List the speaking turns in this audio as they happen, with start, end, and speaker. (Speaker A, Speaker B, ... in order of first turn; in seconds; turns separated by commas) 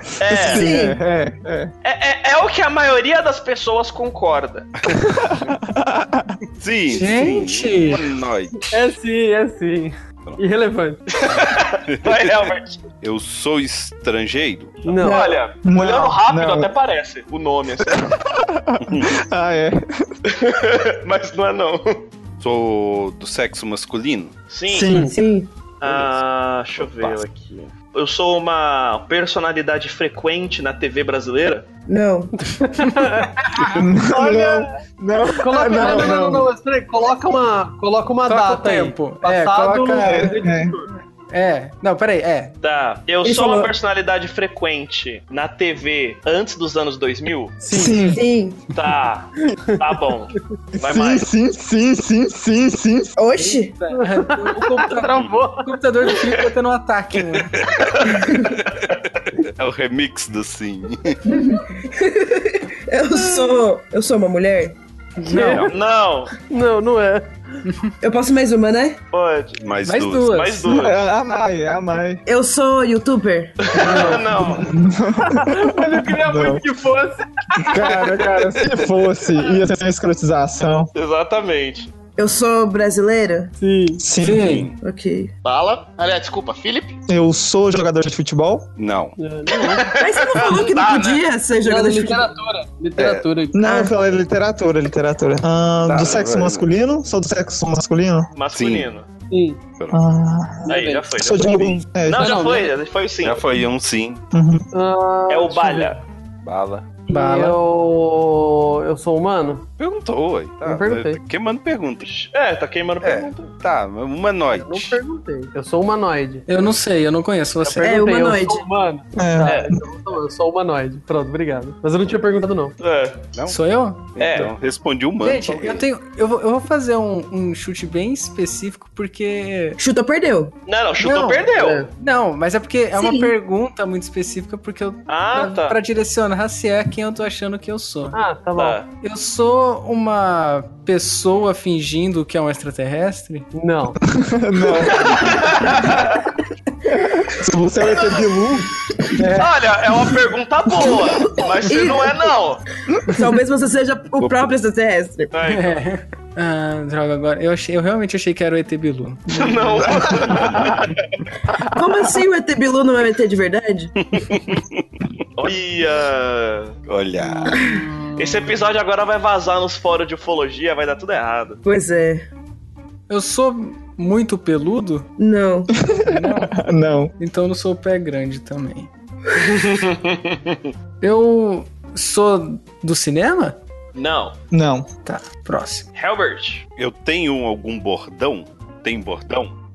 Speaker A: 0.1-1.7, Speaker B: 0.2-0.7, Speaker C: 0.4-1.0, Speaker B: 1.8-4.7, Speaker A: 4.9-6.4, Speaker D: 6.6-8.9, Speaker E: 6.9-8.1, Speaker F: 8.7-11.0, Speaker B: 11.1-12.8, Speaker D: 11.9-12.3, Speaker D: 13.0-14.9, Speaker F: 14.8-15.4, Speaker B: 14.9-18.1, Speaker C: 15.0-15.4, Speaker A: 15.6-16.7, Speaker A: 17.9-19.8, Speaker D: 18.8-19.1, Speaker B: 20.3-22.0, Speaker D: 22.4-24.3, Speaker B: 24.5-24.9, Speaker A: 24.7-25.1, Speaker C: 25.0-25.5, Speaker B: 25.8-31.6, Speaker D: 25.8-26.1, Speaker D: 26.8-27.2, Speaker C: 31.9-32.3, Speaker F: 32.4-33.7, Speaker A: 33.7-36.5, Speaker F: 35.4-40.9, Speaker E: 38.2-40.4, Speaker A: 40.0-40.8, Speaker E: 41.3-42.5, Speaker B: 42.6-47.6, Speaker C: 43.2-43.7, Speaker F: 47.6-48.1, Speaker A: 47.7-48.2, Speaker C: 48.0-48.6, Speaker B: 48.7-51.2, Speaker A: 50.7-53.1, Speaker C: 53.1-53.7, Speaker E: 53.4-57.5, Speaker F: 53.9-55.8, Speaker D: 55.1-55.4, Speaker D: 57.4-58.6, Speaker B: 57.8-59.0, Speaker D: 59.3-61.2, Speaker C: 61.2-64.8, Speaker E: 65.2-65.7, Speaker F: 65.2-65.7, Speaker D: 65.4-65.7, Speaker B: 65.7-66.3, Speaker F: 66.5-67.6, Speaker C: 68.0-69.0, Speaker B: 69.1-69.6, Speaker D: 69.6-70.4, Speaker E: 69.8-70.7, Speaker B: 70.3-71.0, Speaker A: 70.7-72.2, Speaker C: 72.2-73.8, Speaker B: 73.6-74.7, Speaker F: 73.8-74.3, Speaker E: 73.8-74.2, Speaker A: 74.3-76.7, Speaker F: 75.3-78.3, Speaker A: 77.6-80.9, Speaker B: 80.9-81.9, Speaker C: 82.2-83.5, Speaker F: 83.6-84.0, Speaker A: 84.0-84.5, Speaker E: 84.2-84.7, Speaker D: 84.3-84.8, Speaker C: 84.8-85.3, Speaker B: 85.4-87.0, Speaker A: 87.1-88.7, Speaker D: 88.8-89.1, Speaker F: 89.2-89.9, Speaker B: 89.5-91.2, Speaker C: 90.0-92.3, Speaker F: 91.6-93.6, Speaker D: 93.0-93.3, Speaker A: 93.5-98.3, Speaker C: 93.6-93.9, Speaker D: 95.9-96.7, Speaker B: 98.3-99.0, Speaker D: 98.5-98.9, Speaker F: 99.3-99.6, Speaker A: 99.9-102.4, Speaker F: 100.7-101.1, Speaker B: 100.7-103.4, Speaker F: 102.1-102.7, Speaker D: 103.2-104.2, Speaker A: 104.3-104.6, Speaker F: 104.7-106.0, Speaker B: 105.3-106.0, Speaker D: 106.4-107.0, Speaker F: 107.1-109.6, Speaker E: 107.1-107.6, Speaker D: 109.8-112.1, Speaker F: 110.6-111.2, Speaker B: 112.1-113.5, Speaker D: 113.0-115.0, Speaker F: 114.5-116.4, Speaker E: 116.5-118.0, Speaker F: 117.7-122.7, Speaker C: 117.8-118.7, Speaker A: 119.1-119.8, Speaker B: 119.4-119.7, Speaker B: 122.8-123.3, Speaker D: 123.3-125.9, Speaker E: 123.5-124.1, Speaker B: 124.2-124.5, Speaker E: 125.2-129.8, Speaker C: 129.8-130.5, Speaker B: 130.7-131.8, Speaker E: 131.0-138.2, Speaker F: 131.5-131.9, Speaker C: 132.9-133.3, Speaker B: 135.1-135.8, Speaker F: 138.1-138.8, Speaker B: 138.6-138.8, Speaker E: 139.0-143.5, Speaker F: 143.5-144.0, Speaker A: 144.1-146.0, Speaker B: 144.9-146.2, Speaker A: 146.8-149.5, Speaker B: 147.8-148.2, Speaker B: 149.3-152.6, Speaker C: 150.8-152.3, Speaker C: 153.1-155.3, Speaker D: 154.2-154.5, Speaker B: 155.3-155.8, Speaker E: 155.4-160.2, Speaker B: 159.3-160.9, Speaker C: 161.7-163.9, Speaker D: 164.0-164.8, Speaker B: 165.4-166.8, Speaker D: 166.9-167.7, Speaker E: 167.2-168.6, Speaker B: 168.2-171.6, Speaker C: 171.6-172.3, Speaker E: 173.1-175.1, Speaker C: 175.2-175.7, Speaker A: 175.8-177.1, Speaker E: 176.0-176.5, Speaker E: 177.2-178.9, Speaker B: 179.4-180.7, Speaker E: 181.0-183.6, Speaker B: 183.9-184.3, Speaker A: 184.5-184.9, Speaker E: 185.1-185.8, Speaker B: 185.9-186.6, Speaker D: 186.8-189.5